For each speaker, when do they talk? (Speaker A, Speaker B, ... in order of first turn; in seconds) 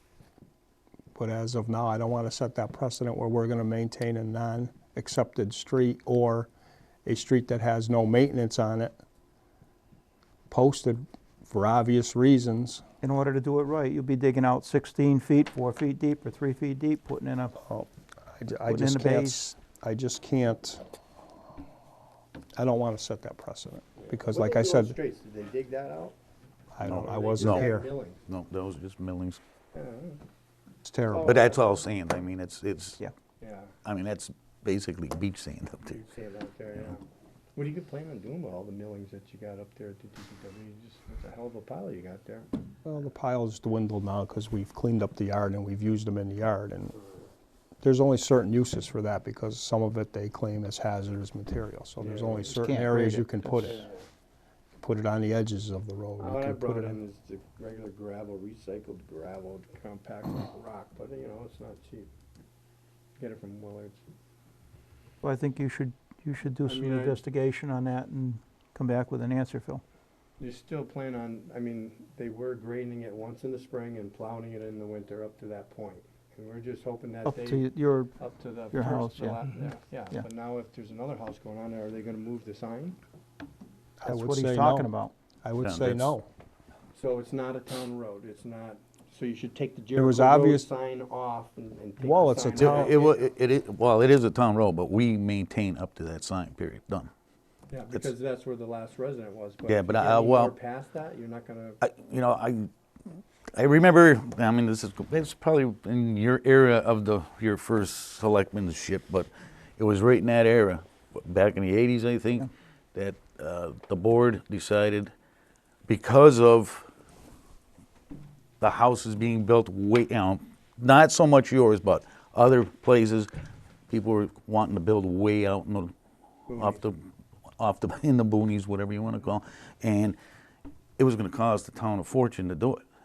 Speaker A: 1.1-6.5, 7.0-8.9, 10.5-12.8, 17.6-20.8, 22.6-24.9, 26.7-27.9, 30.8-31.4, 42.8-47.0, 47.8-53.9, 54.8-57.0, 84.0-84.9, 85.4-86.2, 89.9-90.7, 92.0-92.9
Speaker B: 13.0-17.6, 18.7-19.5, 52.5-53.8, 65.2-69.8, 77.2-78.1, 78.7-79.4, 84.0-85.1
Speaker C: 24.0-26.1, 26.9-28.2, 29.7-30.2, 31.1-31.8, 33.4-33.7, 35.9-42.5, 52.0-52.5, 53.7-54.0, 56.2-62.1, 63.2-64.0, 66.6-67.2, 70.4-83.0, 86.9-93.3, 97.7-101.8, 126.5-126.8
Speaker D: 26.8-27.7, 28.3-29.4, 31.2-33.0, 33.8-36.0, 85.6-86.1, 92.6-97.1, 99.7-100.5, 101.8-102.7, 103.5-115.1, 115.9-116.9, 118.6-123.3, 123.9-125.9, 126.5-127.0, 127.6-130.2, 131.0-132.8